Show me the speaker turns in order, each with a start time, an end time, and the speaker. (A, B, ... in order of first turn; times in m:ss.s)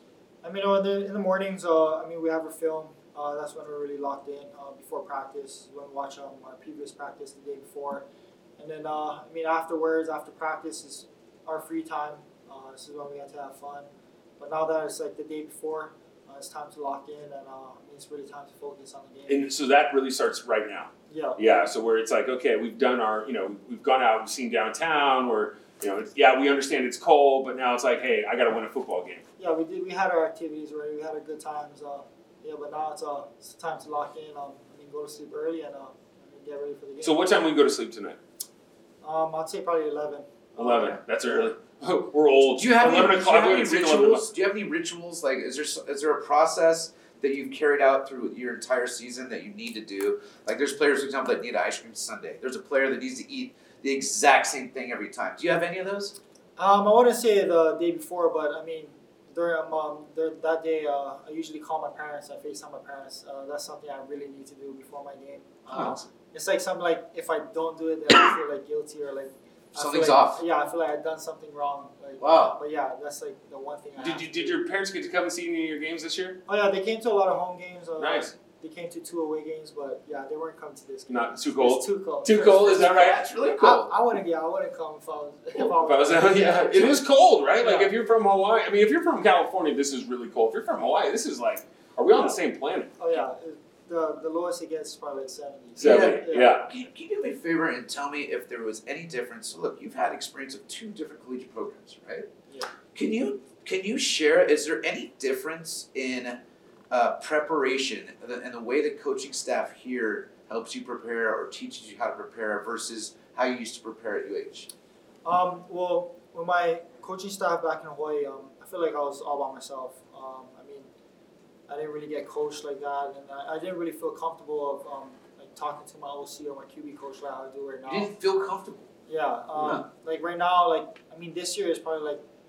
0:00.4-0:08.1 A
0:08.6-0:13.9 A
0:14.4-0:19.5 A
0:19.3-0:29.2 B
0:21.1-0:21.4 A
0:29.4-0:37.4 A
0:37.0-0:38.2 B
0:39.0-0:41.4 A
0:40.6-0:44.3 B
0:42.6-0:56.2 C
0:56.6-1:14.6 A
1:05.7-1:06.1 B
1:09.8-1:10.4 C
1:12.2-1:12.6 C
1:14.0-1:16.4 B
1:16.4-1:22.9 A
1:18.0-1:18.3 B
1:21.1-1:23.2 B
1:22.3-1:23.9 C
1:23.6-1:27.0 A
1:25.6-1:33.2 B
1:27.6-1:27.9 A
1:32.1-1:32.4 A
1:33.0-1:36.6 A
1:35.8-1:36.7 B
1:35.8-1:42.3 C
1:42.9-1:46.4 C
1:46.9-1:54.7 C
1:55.2-2:00.9 A
2:01.7-2:08.1 A
2:07.9-2:08.9 C
2:09.1-2:12.2 A
2:09.6-2:09.8 C